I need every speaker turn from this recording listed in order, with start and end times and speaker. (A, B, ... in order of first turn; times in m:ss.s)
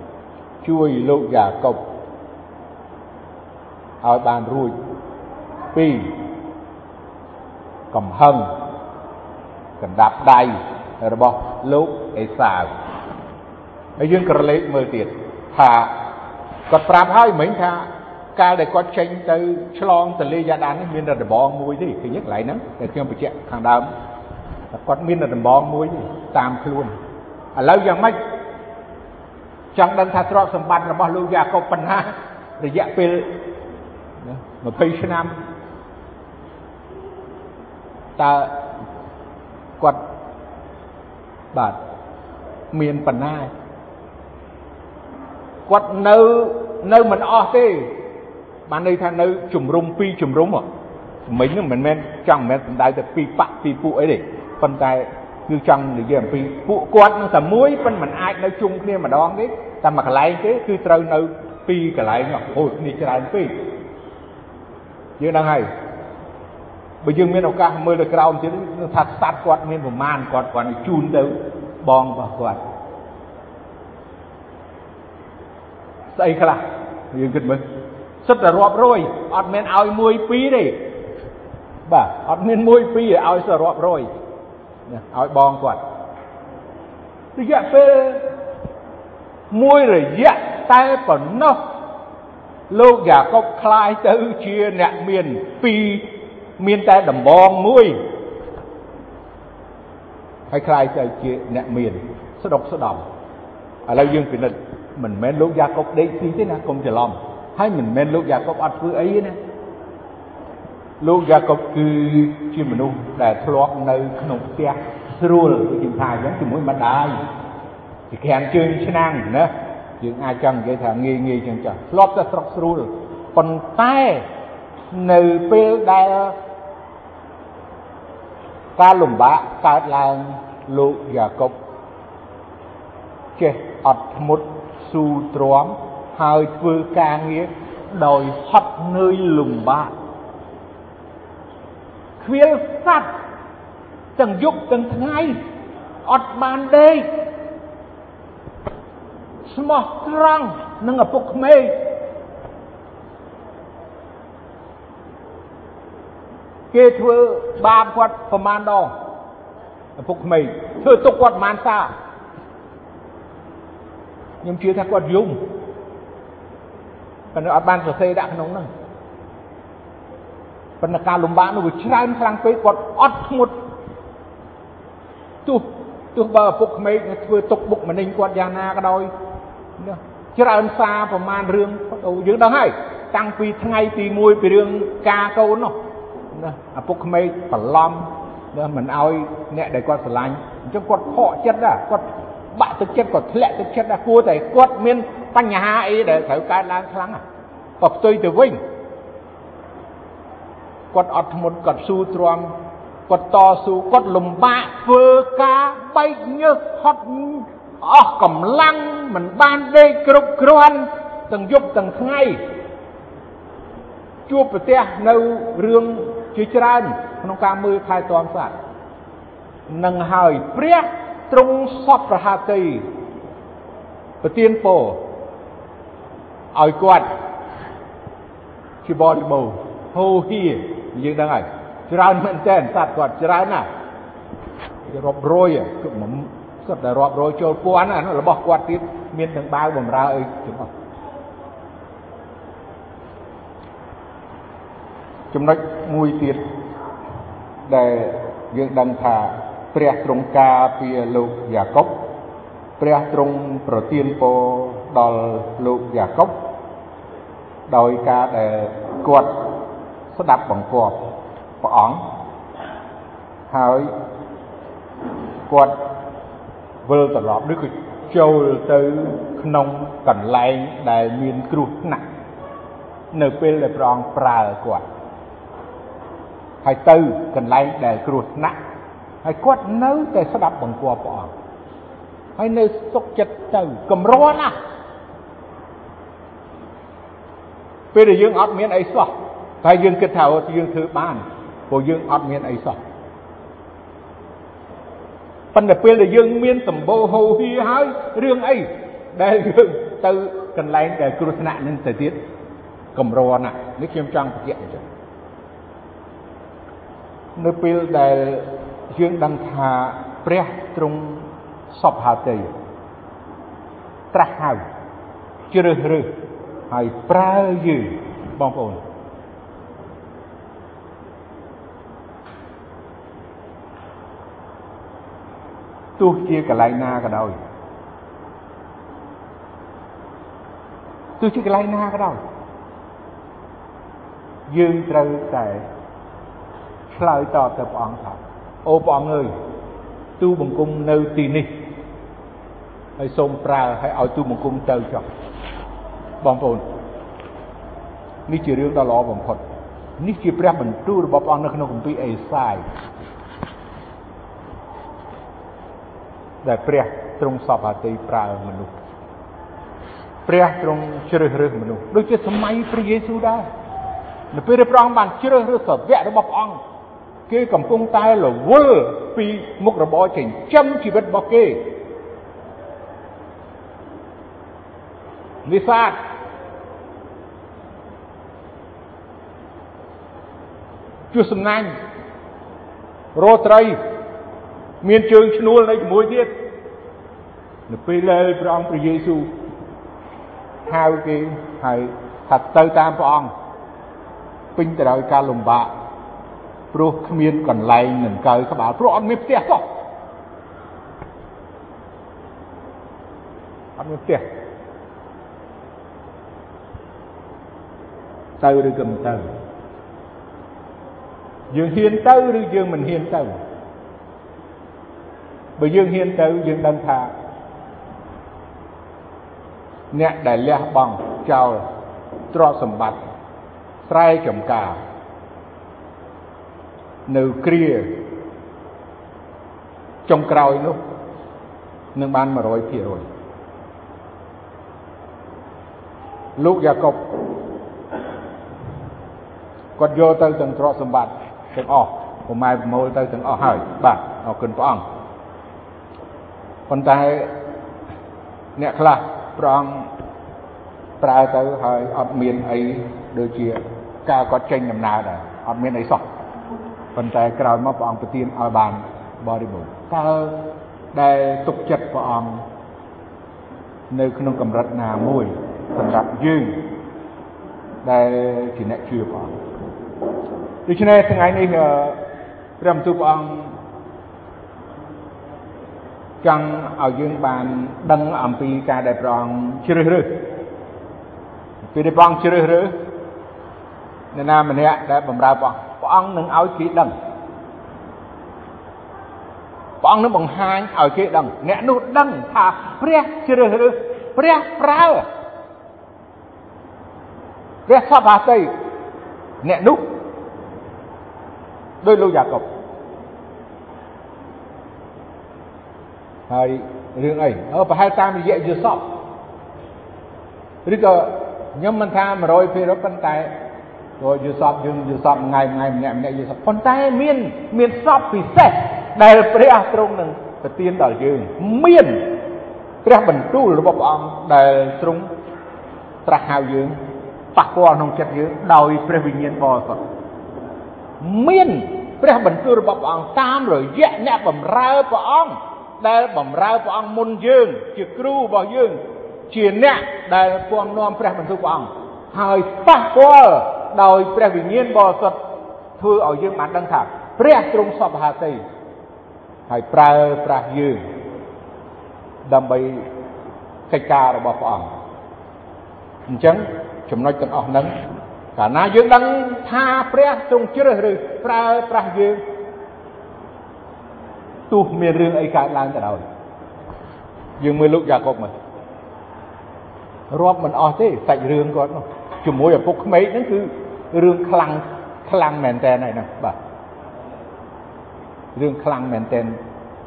0:00.6-0:01.8 A
0:04.0-0:04.8 A
0:05.7-0:06.2 A
0:07.9-0:08.5 A
0:09.8-0:12.7 A
0:14.0-0:16.0 A
0:16.7-0:23.9 A
0:24.7-0:27.0 A
0:27.6-0:28.2 A
0:29.8-0:33.4 A
0:34.2-0:35.4 A
0:38.2-0:38.6 A
0:41.5-0:41.8 A
0:42.7-0:43.5 A
0:45.7-0:47.9 A
0:48.7-0:50.7 A
0:51.2-1:03.6 A
1:05.2-1:05.7 A
1:07.0-1:12.6 A
1:16.2-1:17.6 A
1:18.2-1:20.8 A
1:21.9-1:24.1 A
1:24.9-1:25.8 A
1:27.4-1:28.3 A
1:29.5-1:31.7 A
1:32.7-1:38.0 A
1:40.5-1:43.0 A
1:43.9-1:49.4 A
1:51.0-1:57.2 A
1:58.1-2:04.3 A
2:04.9-2:06.4 A
2:08.8-2:11.6 A
2:13.4-2:19.9 A
2:22.2-2:23.1 A
2:24.2-2:25.4 A
2:26.0-2:27.1 A
2:29.4-2:31.8 A
2:36.7-2:39.0 A
2:40.0-2:41.9 A
2:44.4-2:45.4 A
2:47.3-2:48.7 A
2:50.8-2:53.6 A
2:55.4-2:59.1 A
2:59.8-3:05.8 A
3:06.3-3:17.2 A
3:17.8-3:18.6 A
3:20.9-3:22.5 A
3:23.1-3:32.4 A
3:34.3-3:38.6 A
3:39.7-3:42.9 A
3:44.2-3:45.0 A
3:46.5-3:47.1 A
3:48.8-3:53.7 A
3:54.9-4:00.7 A
4:05.3-4:06.5 A
4:07.6-4:12.1 A
4:12.8-4:16.4 A
4:17.7-4:19.5 A
4:20.1-4:22.1 A
4:23.5-4:23.9 A
4:25.5-4:25.8 A
4:26.8-4:32.0 A
4:33.1-4:34.8 A
4:36.6-4:38.6 A
4:39.2-4:41.3 A
4:42.4-4:44.6 A
4:47.9-4:52.8 A
4:55.5-5:02.2 A
5:03.0-5:04.8 A
5:07.4-5:12.5 A
5:14.1-5:14.6 A
5:15.5-5:16.1 A
5:16.7-5:18.8 A
5:26.0-5:27.4 A
5:31.2-5:32.2 A
5:34.5-5:35.7 A
5:36.9-5:39.3 A
5:40.2-5:41.6 A
5:43.0-5:45.1 A
5:46.2-5:46.7 A
5:48.3-5:49.4 A
5:50.0-5:52.7 A
5:56.4-5:58.7 A
6:00.3-6:03.5 A
6:04.3-6:06.6 A
6:07.3-6:11.7 A
6:15.5-6:16.0 A
6:21.1-6:21.8 A
6:23.2-6:23.8 A
6:24.8-6:26.3 A
6:27.7-6:29.3 A
6:30.7-6:33.3 A
6:34.6-6:35.7 A
6:36.7-6:39.7 A
6:43.8-6:44.2 A
6:48.4-6:49.3 A
6:51.5-6:53.3 A
6:55.6-6:57.1 A
6:59.9-7:01.7 A
7:02.3-7:03.0 A
7:03.8-7:04.8 A
7:07.1-7:08.0 A
7:10.1-7:10.8 A
7:12.0-7:13.0 A
7:16.4-7:17.0 A
7:19.8-7:24.8 A
7:26.7-7:27.3 A
7:28.6-7:29.9 A
7:31.0-7:36.1 A
7:37.0-7:42.4 A
7:43.9-7:46.6 A
7:47.8-7:49.4 A
7:50.7-7:52.0 A
7:52.6-7:53.6 A
7:56.2-8:00.2 A
8:01.7-8:02.8 A
8:04.1-8:06.9 A
8:09.8-8:15.1 A
8:17.7-8:18.5 A
8:19.4-8:20.0 A
8:21.8-8:22.5 A
8:26.3-8:29.0 A
8:30.6-8:33.3 A
8:34.0-8:42.2 A
8:42.8-8:45.1 A
8:46.0-8:46.8 A
8:47.4-8:49.8 A
8:51.0-9:05.2 A
9:05.8-9:08.4 A
9:09.5-9:10.8 A
9:12.2-9:12.9 A
9:13.7-9:14.7 A
9:16.1-9:17.8 A
9:18.4-9:22.2 A
9:24.5-9:26.0 A
9:27.4-9:28.3 A
9:30.1-9:36.4 A
9:38.4-9:39.4 A